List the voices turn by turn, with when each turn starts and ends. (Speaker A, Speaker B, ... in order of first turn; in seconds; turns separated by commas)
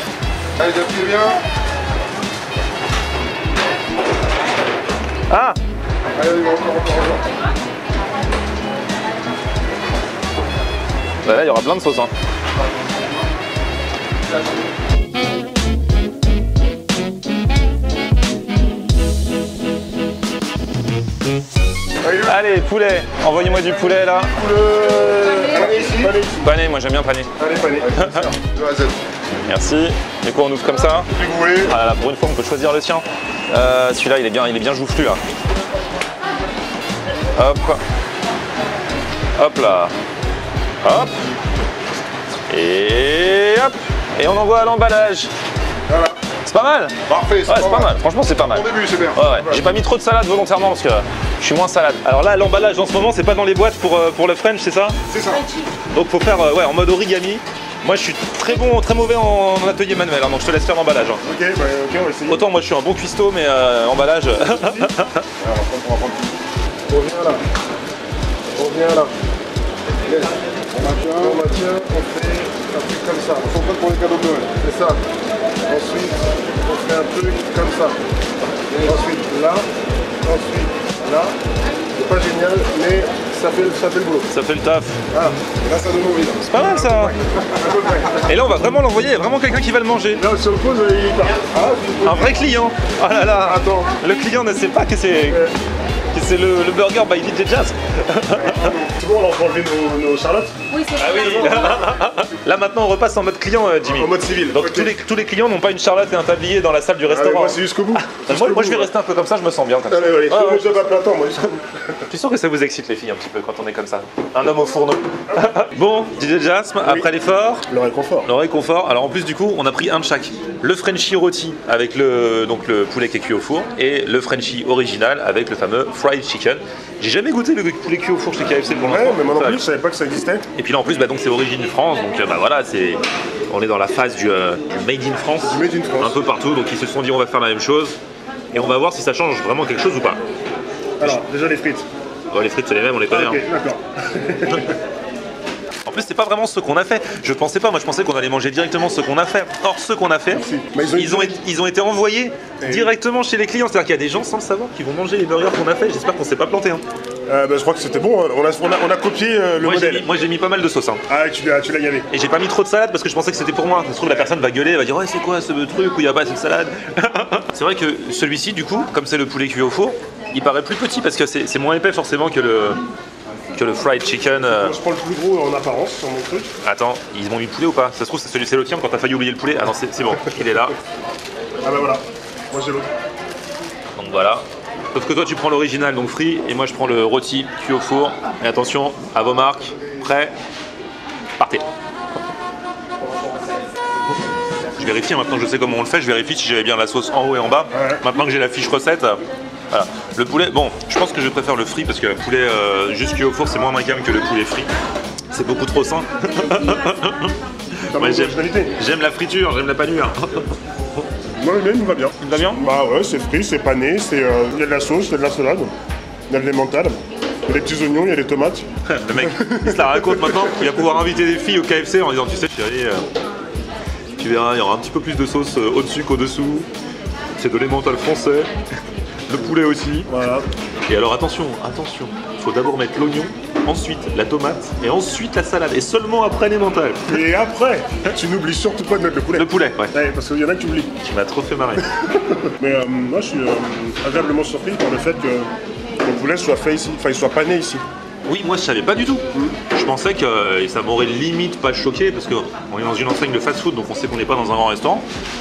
Speaker A: 0.6-1.4, Speaker B: 5.3-5.5, Speaker A: 6.1-7.2, Speaker B: 11.2-12.1, Speaker C: 22.0-22.4, Speaker B: 22.2-24.3, Speaker C: 23.5-26.5, Speaker A: 25.5-26.1, Speaker B: 26.4-27.3, Speaker C: 27.4-28.2, Speaker A: 27.8-29.0, Speaker B: 29.5-31.1, Speaker A: 31.1-31.7, Speaker B: 31.6-35.2, Speaker B: 37.4-37.8, Speaker B: 39.4-39.9, Speaker B: 40.8-41.1, Speaker B: 42.5-45.3, Speaker A: 45.9-46.2, Speaker B: 46.5-46.9, Speaker A: 47.1-49.6, Speaker B: 47.5-55.0, Speaker A: 55.1-55.5, Speaker B: 55.9-61.2, Speaker C: 61.2-62.5, Speaker B: 62.3-65.2, Speaker C: 64.4-64.9, Speaker A: 65.4-66.3, Speaker C: 66.9-67.4, Speaker C: 68.5-69.1, Speaker A: 70.0-71.4, Speaker C: 71.2-73.5, Speaker A: 73.4-74.5, Speaker C: 74.6-75.0, Speaker C: 75.7-78.0, Speaker A: 78.7-79.0, Speaker C: 78.8-79.7, Speaker C: 80.2-81.3, Speaker C: 81.9-84.3, Speaker B: 84.3-85.0, Speaker C: 85.1-85.4, Speaker A: 85.6-86.5, Speaker B: 86.4-87.1, Speaker C: 86.5-88.2, Speaker B: 88.2-90.2, Speaker C: 90.1-92.5, Speaker B: 92.0-95.4, Speaker C: 93.3-93.9, Speaker B: 96.1-98.7, Speaker C: 98.3-100.5, Speaker B: 100.9-110.9, Speaker C: 101.1-101.8, Speaker C: 103.8-105.0, Speaker C: 107.0-108.9, Speaker C: 109.9-112.0, Speaker B: 112.1-117.6, Speaker C: 116.8-117.1, Speaker C: 117.7-118.3, Speaker B: 118.2-129.6, Speaker C: 128.8-130.4, Speaker B: 130.6-138.0, Speaker C: 135.4-136.2, Speaker B: 138.5-140.2, Speaker C: 141.0-141.8, Speaker B: 142.3-143.4, Speaker C: 143.1-144.8, Speaker B: 145.8-156.8, Speaker C: 150.3-151.4, Speaker C: 152.6-152.9, Speaker C: 157.3-160.1, Speaker B: 159.6-161.0, Speaker C: 161.1-162.1, Speaker B: 162.1-172.8, Speaker C: 164.0-164.3, Speaker B: 173.5-174.7, Speaker C: 174.4-176.5, Speaker B: 176.6-180.7, Speaker C: 181.6-182.9, Speaker B: 183.9-190.3, Speaker B: 194.7-204.7, Speaker C: 197.7-198.0, Speaker B: 205.3-207.3, Speaker B: 207.9-210.4, Speaker C: 207.9-208.7, Speaker C: 211.3-215.7, Speaker B: 212.2-212.6, Speaker C: 216.3-220.9, Speaker B: 218.9-223.1, Speaker B: 224.2-226.7, Speaker B: 227.4-228.5, Speaker B: 229.3-230.1, Speaker C: 230.1-230.4, Speaker B: 230.9-237.2, Speaker C: 237.1-240.9, Speaker B: 239.3-239.9, Speaker B: 241.0-241.8, Speaker C: 241.8-245.5, Speaker C: 246.0-247.8, Speaker B: 248.3-255.0, Speaker C: 249.3-249.6